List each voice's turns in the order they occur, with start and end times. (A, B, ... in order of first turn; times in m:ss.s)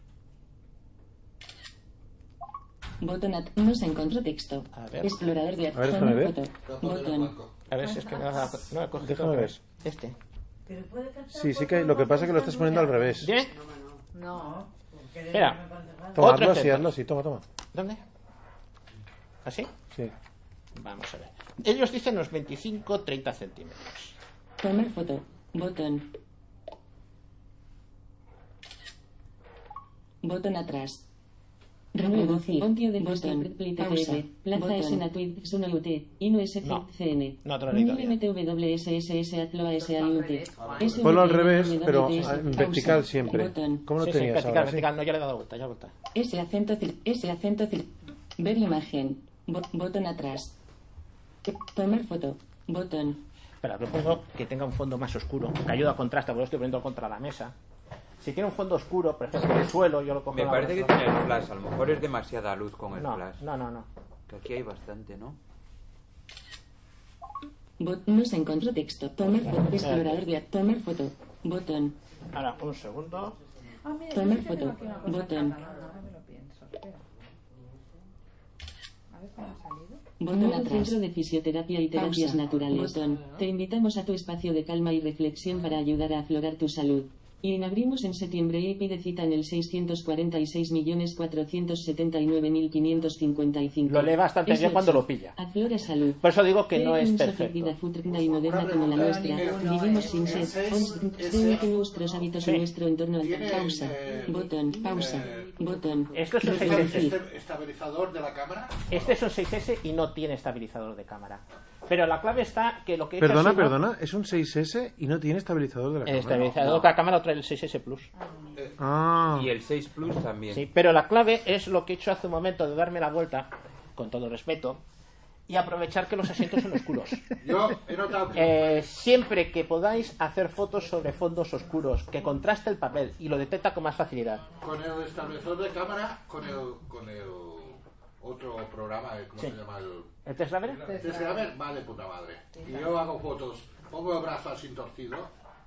0:03.0-0:07.3 A
0:04.7-0:05.2 B
0:05.7-0:06.4 C
0:06.7-0:07.5 D
0:07.7-0:10.2 B
0:09.0-0:09.6 C
0:10.7-0:13.3 E
0:11.3-0:13.3 C
0:13.2-0:13.5 B
0:14.1-0:14.6 F
0:14.3-0:16.3 E
0:15.3-0:15.6 B
0:16.2-0:17.4 C
0:16.2-0:16.9 B
0:17.7-0:18.0 B
0:19.4-0:19.7 B
0:20.8-0:24.2 B
0:24.6-0:26.1 A
0:30.2-0:31.0 A
0:31.9-0:43.9 A
0:37.4-0:38.2 B
0:39.7-0:41.2 F
0:40.6-0:41.1 D
0:40.9-0:44.8 C
0:44.0-0:45.9 B
0:46.1-0:50.5 A
0:51.5-0:53.2 A
0:53.6-0:57.5 B
0:58.2-1:01.3 B
1:00.3-1:03.4 G
1:03.0-1:03.9 B
1:04.3-1:05.4 G
1:07.8-1:12.0 A
1:09.5-1:10.2 B
1:12.3-1:13.4 B
1:13.8-1:17.1 F
1:14.1-1:15.6 A
1:19.1-1:20.0 F
1:20.2-1:47.2 A
1:33.9-1:35.4 B
1:36.2-1:37.8 B
1:38.1-1:42.3 D
1:43.2-1:45.7 D
1:46.1-1:47.1 B
1:46.4-1:49.2 D
1:48.9-1:53.8 B
1:53.2-1:56.8 C
1:56.0-1:58.1 B
1:58.1-1:58.6 F
1:58.8-1:59.5 C
1:59.3-2:00.6 G
2:00.5-2:04.8 B
2:05.5-2:07.2 B
2:07.4-2:08.7 D
2:08.3-2:14.5 B
2:14.6-2:20.1 D
2:20.2-2:20.9 B
2:20.8-2:21.5 F
2:20.9-2:25.3 D
2:22.5-2:23.0 F